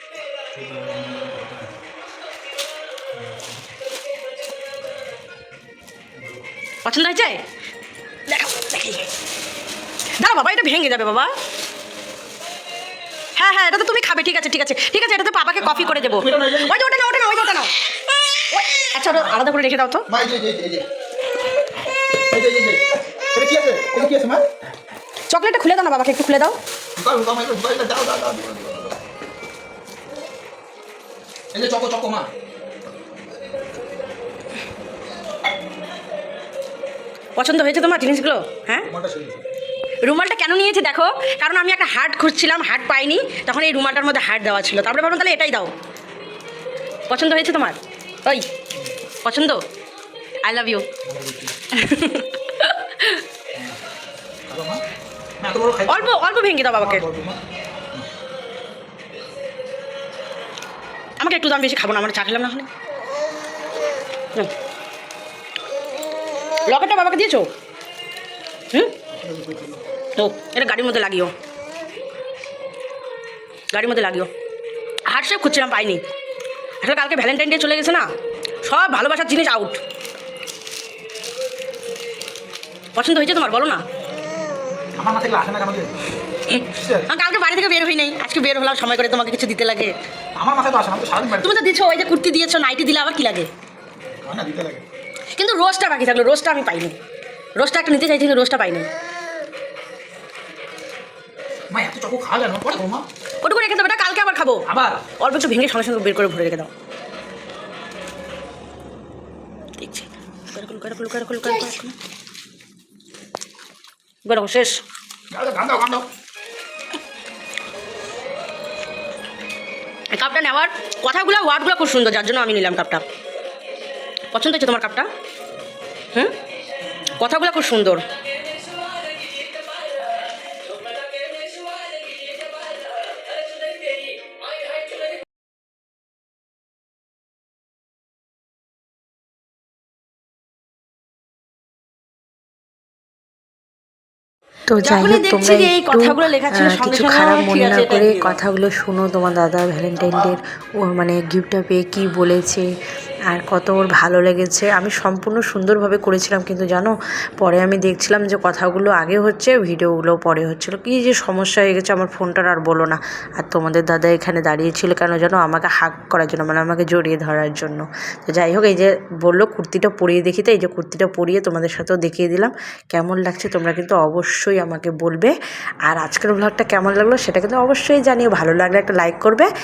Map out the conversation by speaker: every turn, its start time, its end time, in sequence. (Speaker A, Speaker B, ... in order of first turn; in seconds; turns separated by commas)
Speaker A: 0.6-1.7, Speaker B: 6.8-7.4, Speaker B: 8.3-9.1, Speaker B: 10.2-11.3, Speaker B: 13.3-17.7, Speaker A: 15.7-16.7, Speaker B: 18.5-20.1, Speaker A: 20.1-20.9, Speaker A: 22.3-24.4, Speaker B: 25.3-26.6, Speaker A: 27.0-29.0, Speaker A: 31.5-32.3, Speaker B: 37.4-38.9, Speaker A: 38.9-39.4, Speaker B: 40.0-45.7, Speaker B: 47.1-48.5, Speaker B: 49.2-49.6, Speaker B: 50.4-50.9, Speaker A: 51.0-51.5, Speaker B: 51.7-53.2, Speaker A: 54.5-54.8, Speaker A: 55.4-56.1, Speaker B: 55.9-57.0, Speaker A: 56.8-57.4, Speaker B: 61.2-62.7, Speaker B: 66.7-67.5, Speaker A: 69.1-69.8, Speaker B: 70.2-71.3, Speaker B: 73.7-74.3, Speaker B: 75.1-76.0, Speaker B: 76.8-78.1, Speaker B: 78.6-79.8, Speaker B: 83.0-83.8, Speaker A: 85.0-85.9, Speaker A: 86.5-87.1, Speaker B: 87.1-90.0, Speaker A: 90.4-91.5, Speaker B: 91.3-93.5, Speaker A: 94.2-94.8, Speaker B: 95.3-97.0, Speaker B: 97.6-98.9, Speaker A: 101.7-103.0, Speaker B: 103.4-104.7, Speaker A: 104.7-105.1, Speaker B: 105.2-106.7, Speaker B: 109.8-112.0, Speaker B: 114.2-114.8, Speaker A: 115.3-116.0, Speaker B: 120.1-123.0, Speaker B: 124.3-125.1, Speaker B: 127.2-128.0, Speaker C: 144.7-152.7, Speaker B: 144.8-148.4, Speaker C: 153.3-175.3, Speaker C: 175.9-179.5